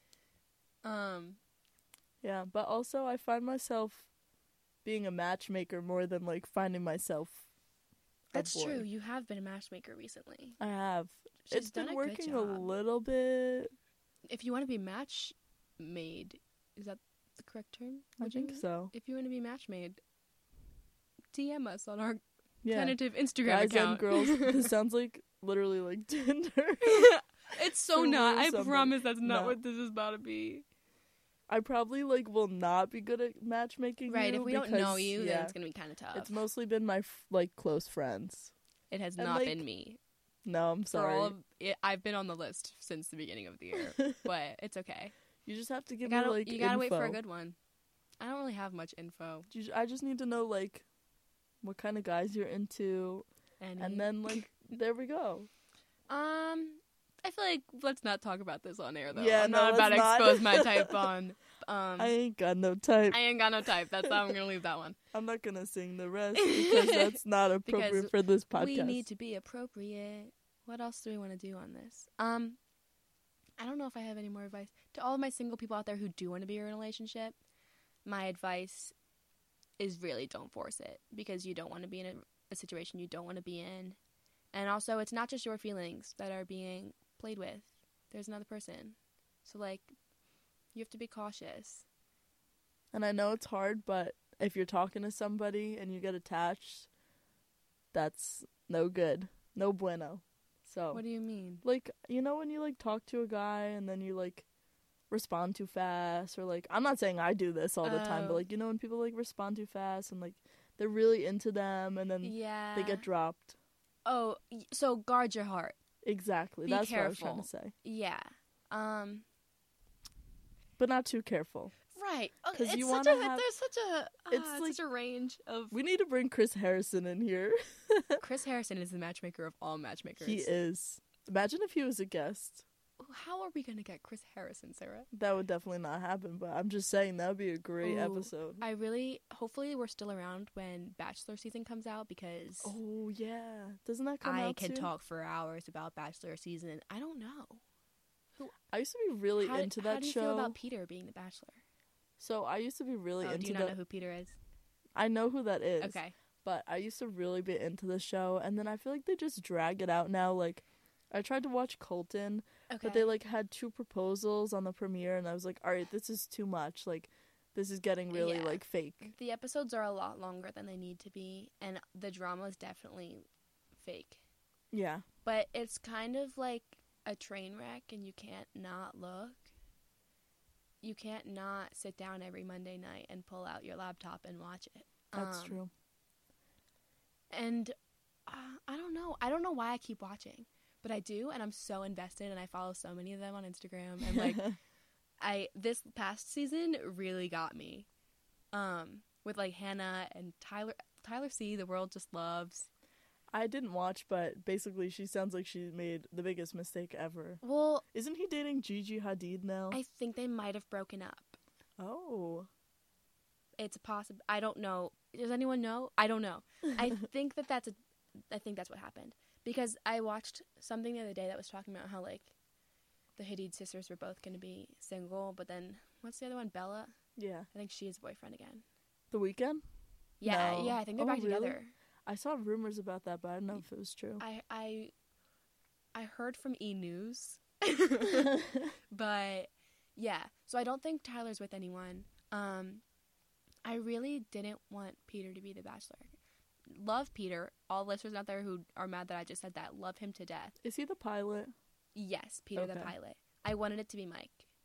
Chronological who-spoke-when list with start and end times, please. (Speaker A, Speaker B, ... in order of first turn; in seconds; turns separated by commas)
Speaker A: 0.8-1.4, Speaker B: 2.2-4.1, Speaker B: 4.8-7.5, Speaker B: 8.3-8.8, Speaker A: 8.3-10.6, Speaker B: 10.6-13.7, Speaker A: 11.4-12.7, Speaker A: 14.3-20.0, Speaker B: 18.2-18.9, Speaker A: 21.3-24.7, Speaker B: 22.6-27.1, Speaker A: 26.8-30.6, Speaker B: 27.9-29.6, Speaker B: 31.5-35.5, Speaker A: 34.1-36.4, Speaker B: 36.1-38.5, Speaker A: 38.9-40.0, Speaker B: 39.2-39.6, Speaker B: 40.4-41.3, Speaker A: 40.9-45.1, Speaker B: 45.5-47.2, Speaker A: 46.0-47.6, Speaker A: 48.2-49.5, Speaker B: 49.5-50.9, Speaker B: 51.6-53.3, Speaker A: 53.6-54.5, Speaker B: 53.8-55.5, Speaker A: 56.1-62.1, Speaker B: 59.1-61.1, Speaker B: 62.0-63.2, Speaker A: 63.1-65.0, Speaker B: 65.1-69.0, Speaker A: 66.3-72.6, Speaker A: 73.6-77.3, Speaker A: 78.0-78.9, Speaker A: 79.8-84.0, Speaker A: 84.5-89.9, Speaker A: 90.7-91.8, Speaker B: 92.9-96.9, Speaker B: 97.9-101.0, Speaker A: 100.9-101.6, Speaker B: 101.6-104.5, Speaker B: 105.1-113.5, Speaker A: 107.8-108.4, Speaker A: 112.2-113.1, Speaker A: 114.0-115.8, Speaker B: 116.0-117.7, Speaker A: 116.6-119.2, Speaker B: 120.8-121.7, Speaker A: 121.9-125.8, Speaker B: 122.5-123.4, Speaker B: 124.3-124.8, Speaker B: 125.7-128.2, Speaker A: 128.2-130.5, Speaker B: 130.2-132.6, Speaker A: 133.0-135.1, Speaker B: 135.1-138.6, Speaker A: 137.8-142.8, Speaker B: 142.6-144.9, Speaker A: 144.2-147.6, Speaker B: 148.7-150.6, Speaker A: 149.4-151.6, Speaker B: 152.2-153.8, Speaker A: 153.2-154.4, Speaker B: 154.9-169.1, Speaker A: 155.8-156.1, Speaker A: 162.7-163.1, Speaker A: 168.1-173.2, Speaker A: 173.8-174.2, Speaker B: 174.7-175.0, Speaker A: 175.2-179.5, Speaker A: 180.8-185.6, Speaker B: 185.1-185.7, Speaker A: 187.3-187.7, Speaker A: 188.3-194.5, Speaker B: 194.0-194.6, Speaker A: 195.2-197.9, Speaker A: 198.5-202.7, Speaker B: 203.3-209.8, Speaker A: 207.4-207.8, Speaker A: 209.7-211.4, Speaker B: 211.8-212.5, Speaker A: 213.6-217.8, Speaker A: 218.3-222.3, Speaker A: 223.2-226.9, Speaker B: 227.2-227.5, Speaker A: 227.5-228.6, Speaker B: 229.1-229.6, Speaker A: 230.2-231.7, Speaker B: 230.2-234.2, Speaker A: 234.2-234.9, Speaker A: 235.9-242.8, Speaker B: 238.2-238.7, Speaker A: 243.6-246.2, Speaker A: 246.7-250.5, Speaker B: 250.6-251.5, Speaker A: 251.9-254.5, Speaker B: 252.6-252.9